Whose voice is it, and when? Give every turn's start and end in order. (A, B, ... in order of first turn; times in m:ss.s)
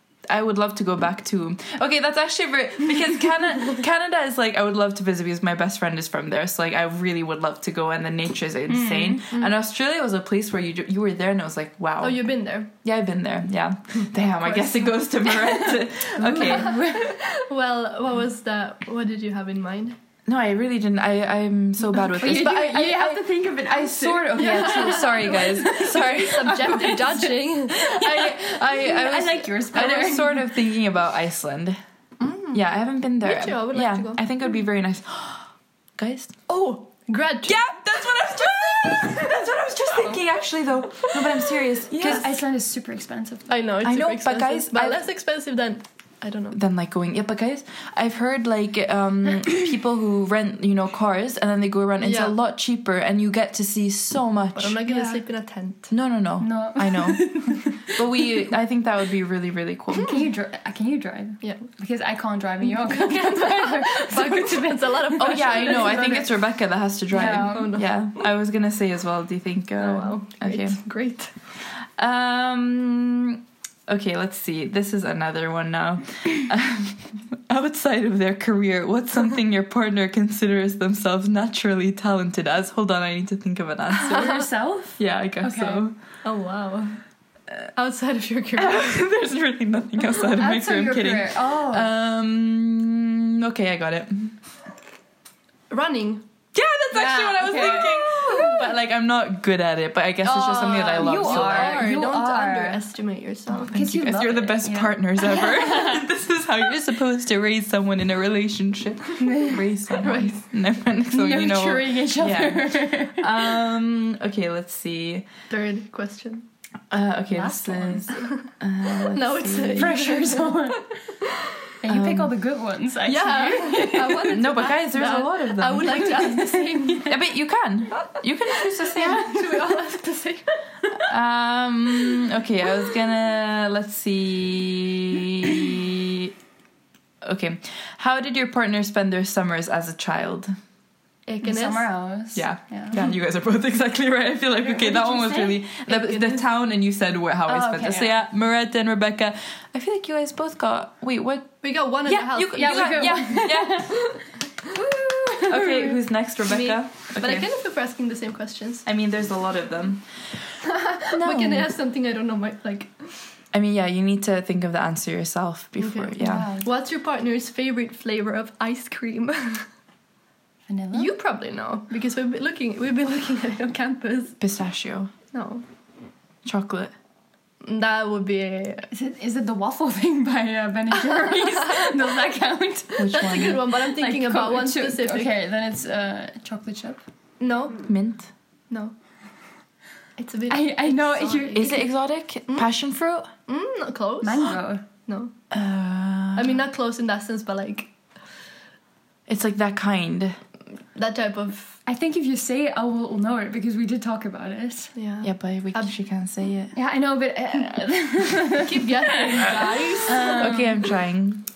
0:00.3-0:12.3 A
0:08.7-0:09.3 B
0:12.0-0:12.7 C
0:12.8-0:16.8 A
0:14.4-0:15.0 C
0:15.3-0:17.2 B
0:16.2-0:20.0 C
0:20.3-0:26.6 A
0:22.0-0:30.6 B
0:24.4-0:27.9 C
0:27.8-0:31.8 A
0:32.2-0:32.6 C
0:32.5-0:36.3 A
0:33.2-0:34.2 C
0:36.5-0:37.6 C
0:37.4-0:42.4 A
0:39.8-0:40.2 B
0:40.9-0:41.4 B
0:41.9-0:43.5 B
0:43.5-0:46.6 C
0:43.8-0:45.0 A
0:46.5-0:54.8 A
0:52.0-0:52.3 C
0:54.6-0:55.9 C
0:54.9-0:55.2 B
0:55.9-1:00.2 A
0:56.4-0:58.4 B
1:00.0-1:06.3 B
1:02.6-1:06.3 C
1:05.2-1:10.8 A
1:07.1-1:07.8 B
1:07.1-1:07.8 C
1:09.8-1:11.3 C
1:11.7-1:24.4 A
1:24.0-1:25.8 B
1:24.1-1:24.5 C
1:25.0-1:25.9 A
1:26.2-1:27.0 C
1:27.7-1:29.0 C
1:28.6-1:34.4 A
1:30.2-1:31.9 B
1:35.7-1:36.2 C
1:36.5-1:41.9 A
1:36.9-1:38.7 B
1:40.2-1:43.8 C
1:40.9-1:42.8 B
1:43.7-1:55.3 A
1:43.7-1:46.0 B
1:49.2-1:49.6 B
1:49.9-1:50.4 C
1:51.1-1:53.6 B
1:55.5-1:56.4 C
1:56.9-2:00.0 A
1:57.3-1:58.1 B
1:58.1-1:58.5 C
1:59.1-2:01.7 C
1:59.7-2:01.0 B
2:01.8-2:04.3 B
2:01.9-2:02.3 A
2:03.0-2:07.1 C
2:04.3-2:06.3 A
2:05.8-2:07.2 B
2:07.0-2:09.5 A
2:08.0-2:10.7 C
2:09.0-2:09.8 B
2:10.9-2:16.3 A
2:17.2-2:20.5 A
2:21.3-2:21.9 C
2:21.4-2:23.0 B
2:22.3-2:34.0 A
2:24.6-2:25.6 B
2:25.8-2:26.4 C
2:27.5-2:28.2 B
2:31.6-2:34.1 C
2:32.5-2:34.2 B
2:34.7-2:36.0 B
2:35.4-2:37.5 A
2:36.4-2:38.8 C
2:38.8-2:40.0 A
2:40.6-2:43.2 C
2:41.1-2:41.7 A
2:43.5-2:46.5 A
2:45.8-2:49.7 C
2:46.2-2:46.7 B
2:50.7-2:51.1 B
2:50.9-2:54.4 C
2:54.4-2:55.1 A
2:55.3-2:55.6 C
2:56.4-2:56.9 A
2:57.6-2:58.9 C
2:58.9-3:07.0 B
3:03.0-3:03.6 A
3:03.1-3:05.3 C
3:07.4-3:07.8 C
3:07.8-3:08.3 A
3:10.2-3:11.7 C
3:10.5-3:11.9 B
3:11.5-3:13.3 A
3:13.5-3:15.3 C
3:14.2-3:14.8 B
3:15.5-3:16.6 A
3:16.3-3:17.9 C
3:19.3-3:20.4 A
3:20.9-3:21.8 C
3:21.8-3:24.9 B
3:24.9-3:25.9 C
3:25.2-3:26.7 A
3:26.7-3:30.9 B
3:28.6-3:30.6 C
3:30.1-3:31.4 A